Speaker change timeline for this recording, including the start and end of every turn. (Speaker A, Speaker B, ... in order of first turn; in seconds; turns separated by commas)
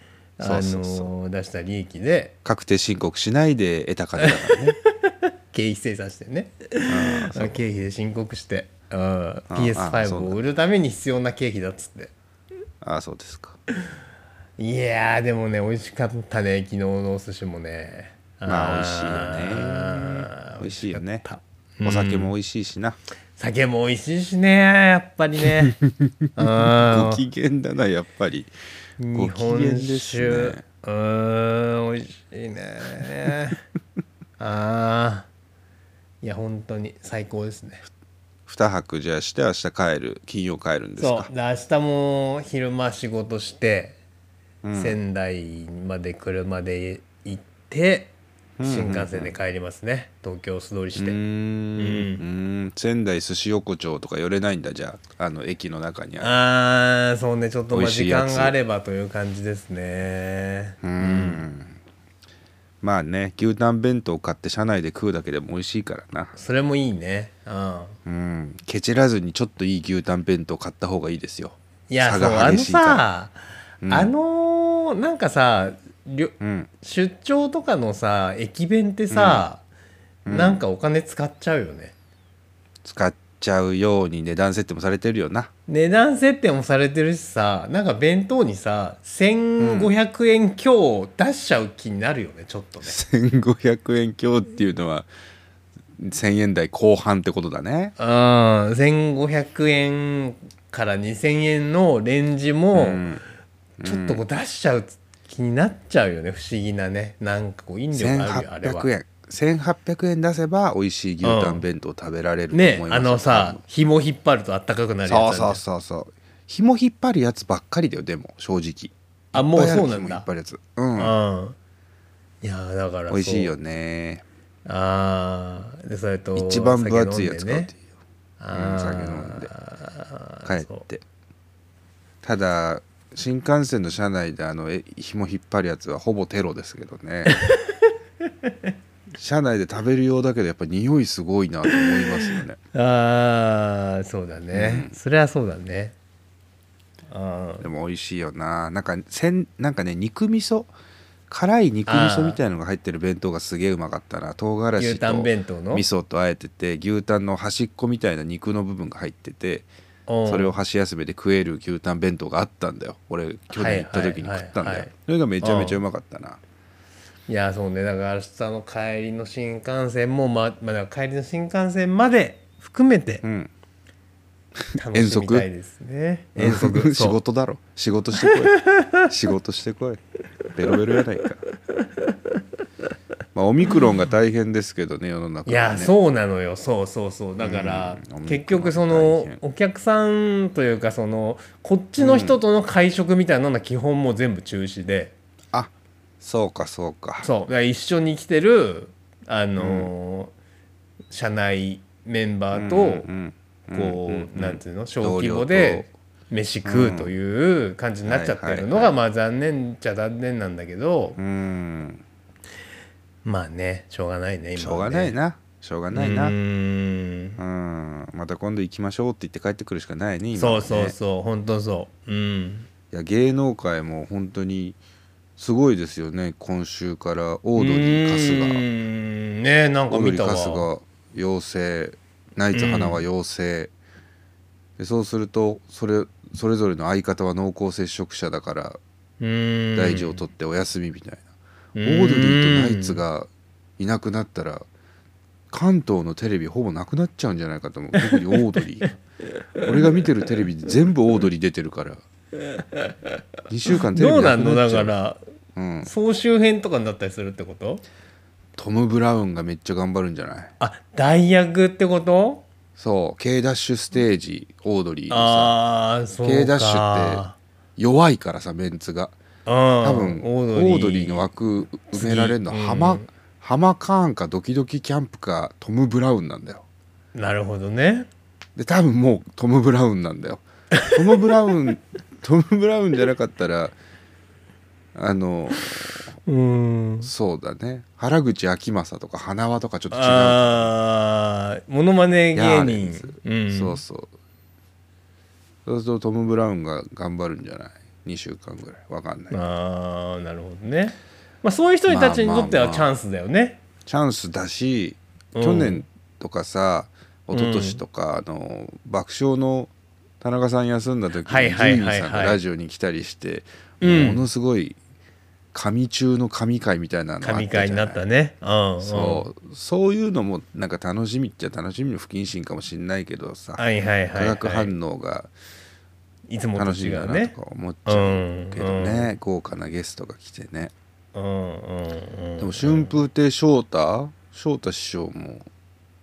Speaker A: 0.4-2.3, Speaker B: 0.4-1.1, Speaker B: 2.4-4.8, Speaker A: 4.2-12.1, Speaker B: 6.9-7.6, Speaker B: 9.5-10.4, Speaker B: 12.8-13.6, Speaker A: 14.6-22.3, Speaker B: 18.4-21.2, Speaker B: 21.8-23.0, Speaker A: 23.4-25.8, Speaker B: 25.6-28.5, Speaker A: 26.3-27.2, Speaker A: 29.0-33.6, Speaker B: 29.1-30.6, Speaker A: 34.4-35.3, Speaker A: 36.2-37.8, Speaker B: 38.5-41.3, Speaker A: 41.0-44.0, Speaker B: 44.6-45.0, Speaker A: 44.7-51.2, Speaker B: 48.6-49.3, Speaker B: 51.0-56.4, Speaker A: 51.8-52.2, Speaker A: 56.2-61.4, Speaker B: 57.7-58.5, Speaker B: 60.8-61.8, Speaker B: 62.8-66.4, Speaker A: 66.3-68.0, Speaker B: 68.0-73.0, Speaker A: 71.9-73.3, Speaker B: 73.8-74.1, Speaker A: 73.9-79.6, Speaker B: 76.4-76.7, Speaker B: 79.1-79.5, Speaker B: 80.2-80.6, Speaker A: 80.2-81.9, Speaker B: 82.8-85.5, Speaker A: 85.7-93.0, Speaker B: 89.6-89.9, Speaker B: 92.8-95.1, Speaker B: 96.0-97.9, Speaker A: 98.0-103.1, Speaker B: 102.7-103.2, Speaker B: 103.8-104.2, Speaker A: 103.8-108.9, Speaker B: 107.9-113.6, Speaker A: 111.2-111.6, Speaker A: 112.5-115.6, Speaker B: 115.0-121.1, Speaker A: 119.3-120.3, Speaker A: 121.0-121.5, Speaker A: 122.4-123.5, Speaker B: 123.1-124.2, Speaker A: 124.7-127.7, Speaker B: 126.3-127.8, Speaker A: 128.4-130.8, Speaker B: 128.5-129.5, Speaker B: 130.4-131.0, Speaker B: 132.2-137.4, Speaker A: 137.3-138.7, Speaker B: 139.1-142.6, Speaker A: 141.7-145.9, Speaker B: 144.5-144.9, Speaker A: 147.1-147.7, Speaker B: 147.6-150.7, Speaker B: 151.3-159.7, Speaker A: 151.9-152.4, Speaker A: 154.8-155.8, Speaker A: 160.1-160.6, Speaker B: 160.3-166.4, Speaker A: 163.5-164.9, Speaker A: 165.4-165.8, Speaker A: 167.3-173.2, Speaker B: 173.2-173.5, Speaker B: 174.7-175.5, Speaker A: 174.7-177.2, Speaker B: 176.4-180.0, Speaker A: 178.2-179.1, Speaker B: 180.5-181.4, Speaker B: 183.3-185.9, Speaker A: 185.4-195.1, Speaker B: 187.4-189.4, Speaker B: 192.0-192.4, Speaker B: 195.5-197.3, Speaker A: 197.2-200.3, Speaker B: 199.6-199.9, Speaker A: 201.1-203.1, Speaker B: 202.5-205.9, Speaker A: 203.7-211.2, Speaker B: 206.6-207.1, Speaker B: 208.1-208.9, Speaker B: 211.2-212.0, Speaker A: 213.2-215.2, Speaker B: 214.6-216.3, Speaker A: 215.9-217.4, Speaker B: 217.4-220.9, Speaker A: 220.3-222.7, Speaker B: 222.9-224.8, Speaker B: 225.4-228.6, Speaker A: 227.6-230.7, Speaker B: 229.9-233.7, Speaker A: 232.5-233.0, Speaker B: 234.8-238.8, Speaker A: 239.2-240.2, Speaker B: 239.7-241.2, Speaker A: 241.8-243.0, Speaker B: 241.8-244.7, Speaker B: 245.5-249.0, Speaker A: 248.1-248.4, Speaker B: 249.6-252.0, Speaker A: 252.5-253.1, Speaker B: 253.5-254.9, Speaker A: 253.9-255.2, Speaker B: 255.6-255.9, Speaker A: 255.8-257.8, Speaker B: 258.6-260.5, Speaker A: 260.6-262.4, Speaker B: 262.8-265.6, Speaker A: 265.1-267.4, Speaker B: 266.2-267.2, Speaker B: 267.8-269.1, Speaker A: 269.4-271.3, Speaker B: 269.8-276.6, Speaker A: 271.9-273.1, Speaker A: 277.1-278.1, Speaker B: 278.6-283.8, Speaker B: 284.9-286.1, Speaker A: 286.2-287.1, Speaker B: 287.0-290.7, Speaker A: 289.9-293.8, Speaker B: 292.3-294.1, Speaker B: 295.6-299.4, Speaker A: 299.3-303.6, Speaker B: 301.9-302.9, Speaker B: 303.9-314.8, Speaker A: 305.3-305.8, Speaker A: 307.3-307.8, Speaker A: 311.2-312.4, Speaker A: 313.8-314.3, Speaker B: 315.5-318.0, Speaker A: 317.2-319.3, Speaker B: 318.8-323.6, Speaker A: 323.6-324.7, Speaker B: 324.1-325.3, Speaker A: 326.3-329.1, Speaker B: 326.6-330.7, Speaker A: 331.1-332.9, Speaker B: 332.4-335.4